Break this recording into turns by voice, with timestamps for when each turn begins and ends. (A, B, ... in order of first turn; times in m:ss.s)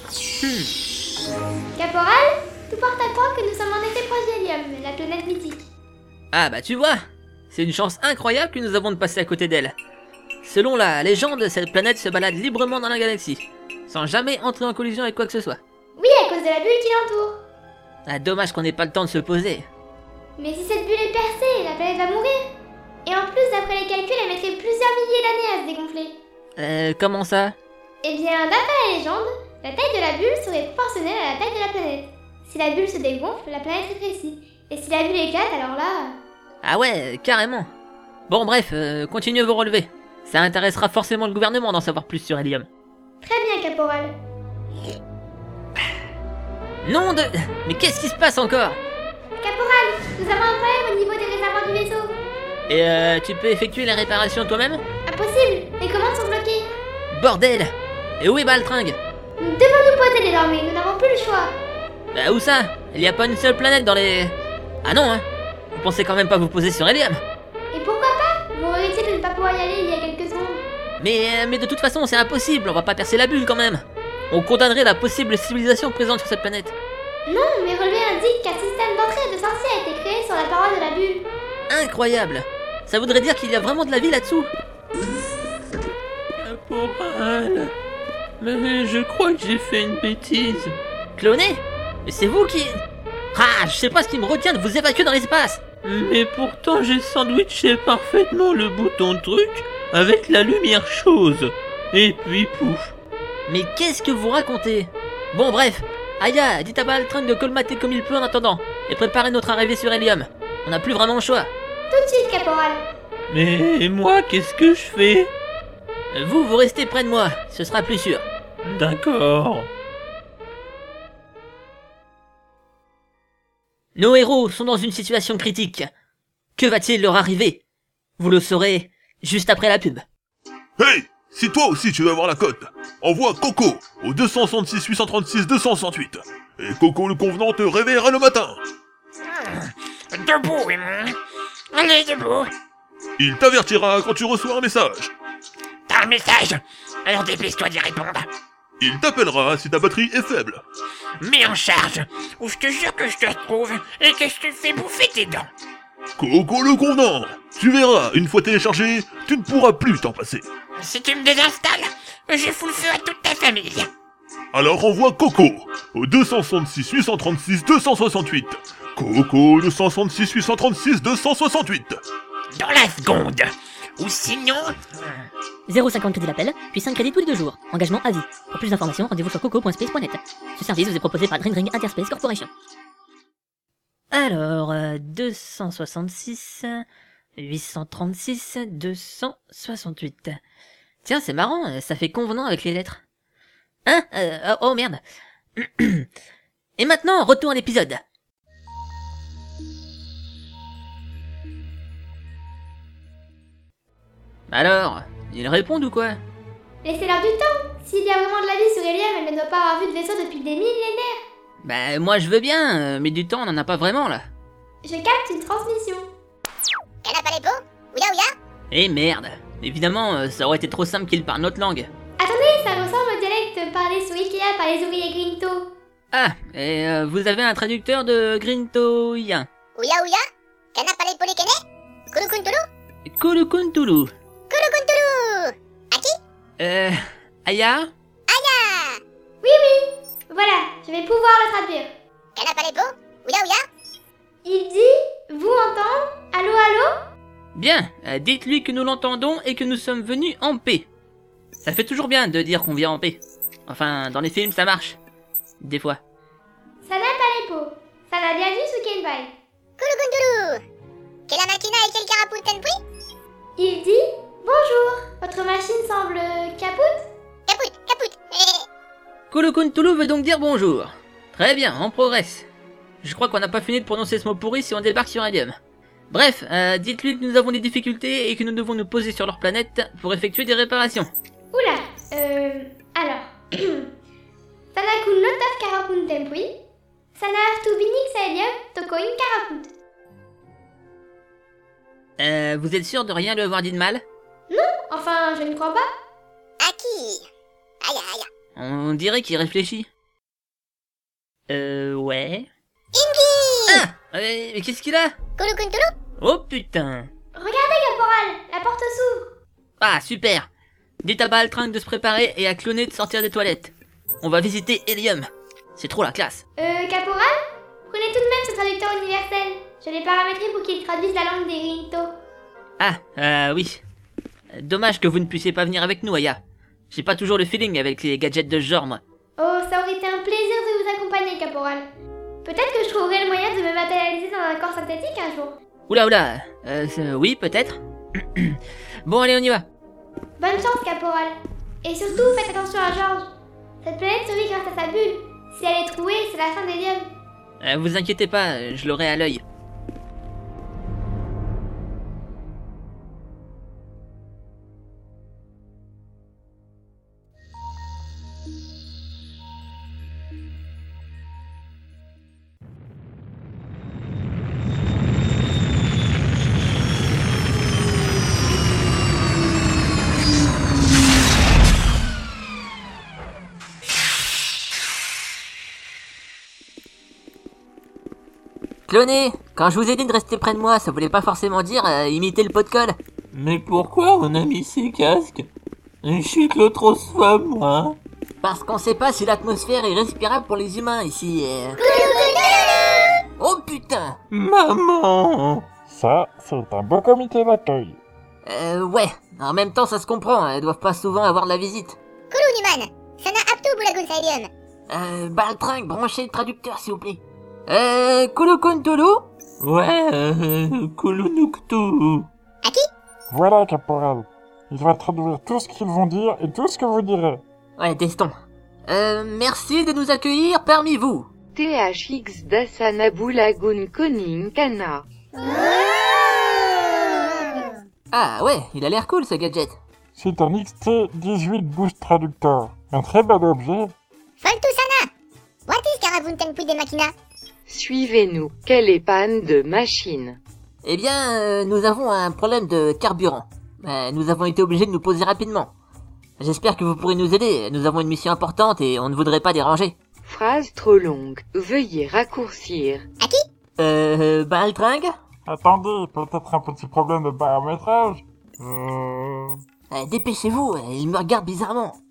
0:00.4-0:00.7 A
0:01.8-0:05.7 B
0:06.3-0:09.7 A
0:10.4-0:15.6 A
0:16.0-0:17.4 B
0:18.0-0:19.7 A
0:20.4-0:22.5 B
0:23.0-0:26.1 B
0:26.6-0:27.6 A
0:28.0-0:36.1 B
0:36.6-0:37.7 A
0:38.3-0:42.7 A
0:43.2-0:44.1 B
0:46.8-0:48.8 A
0:49.4-0:52.1 B
0:52.7-0:54.8 A
0:55.1-0:56.7 B
0:57.1-0:59.0 A
0:59.4-1:01.5 B
1:02.1-1:07.2 A
1:07.7-1:10.6 B
1:11.0-1:16.7 A
1:17.3-1:21.2 B
1:21.7-1:24.5 A
1:26.4-1:27.7 C
1:28.4-1:30.8 C
1:31.2-1:32.8 A
1:33.3-1:35.6 A
1:35.8-1:42.9 C
1:43.5-1:51.5 A
1:51.9-1:52.8 B
1:53.3-1:55.3 C
1:56.1-1:58.3 A
1:58.6-1:59.7 C
2:04.0-2:05.9 A
2:06.6-2:07.6 A
2:08.2-2:10.0 A
2:10.8-2:18.6 D
2:19.3-2:21.2 E
2:21.7-2:22.5 E
2:23.2-2:25.1 D
2:25.9-2:28.3 E
2:28.8-2:30.6 D
2:31.2-2:35.5 E
2:36.2-2:40.4 D
2:40.8-2:43.9 E
2:44.5-2:52.0 D
2:52.5-2:55.2 E
2:55.7-3:02.5 F
3:04.1-3:06.8 A
3:07.4-3:10.4 A
3:11.0-3:13.0 A
3:13.8-3:15.0 A
3:15.6-3:16.1 A
3:16.8-3:18.0 A
3:24.5-3:26.2 A
3:26.8-3:31.2 B
3:31.6-3:34.2 A
3:34.8-3:36.0 B
3:37.0-3:38.3 G
3:38.7-3:41.9 A
3:42.2-3:45.7 B
3:46.1-3:49.5 A
3:49.8-3:50.2 G
3:50.7-3:51.5 G
3:52.1-3:52.6 G
3:53.1-3:54.1 A
3:54.5-3:56.1 G
3:56.6-3:57.9 A
3:58.3-3:59.0 G
3:59.4-4:01.9 B
4:02.4-4:03.6 G
4:04.4-4:07.0 B
4:07.5-4:10.9 A
4:11.6-4:15.0 A
4:15.6-4:16.0 A
4:16.8-4:19.3 B
4:19.8-4:20.6 G
4:21.3-4:22.8 G
4:23.6-4:27.0 B
4:27.5-4:28.6 G
4:29.3-4:32.5 A
4:33.0-4:35.5 A
4:36.1-4:41.1 A
4:41.5-4:43.9 B
4:44.7-4:46.5 B
4:47.1-4:49.7 B
4:52.2-4:54.0 A
4:54.5-4:55.9 B
4:56.6-4:57.3 G
4:57.8-4:58.3 G
4:58.6-4:59.9 A
5:01.5-5:02.5 A
5:02.9-5:03.8 G
5:03.7-5:05.1 A
5:05.4-5:05.9 G
5:06.2-5:07.1 A
5:07.3-5:09.3 B
5:09.8-5:10.5 A
5:11.0-5:16.4 A
5:16.6-5:17.3 B
5:17.9-5:22.1 B
5:22.8-5:23.8 A
5:24.5-5:29.0 A
5:29.4-5:31.8 B
5:32.4-5:35.6 B
5:35.9-5:39.6 A
5:40.4-5:43.3 B
5:43.8-5:47.0 B
5:47.6-5:49.4 A
6:18.9-6:23.0 A
6:23.3-6:25.5 C
6:26.0-6:28.0 C
6:28.4-6:31.8 A
6:31.8-6:33.0 G
6:33.4-6:34.2 A
6:34.3-6:35.6 C
6:35.9-6:38.0 H
6:38.4-6:42.0 A
6:42.3-6:44.5 G
6:44.9-6:49.3 A
6:49.6-6:52.3 C
6:53.3-6:57.4 H
6:57.8-6:58.4 A
6:58.9-7:01.3 A
7:01.5-7:05.0 I
7:08.1-7:09.8 A
7:10.1-7:13.9 H
7:14.4-7:15.1 G
7:15.7-7:17.1 G
7:17.7-7:20.4 I
7:20.8-7:25.7 A
7:26.4-7:30.0 A
7:30.2-7:33.0 I
7:33.8-7:35.1 A
7:35.4-7:39.6 H
7:39.9-7:42.0 A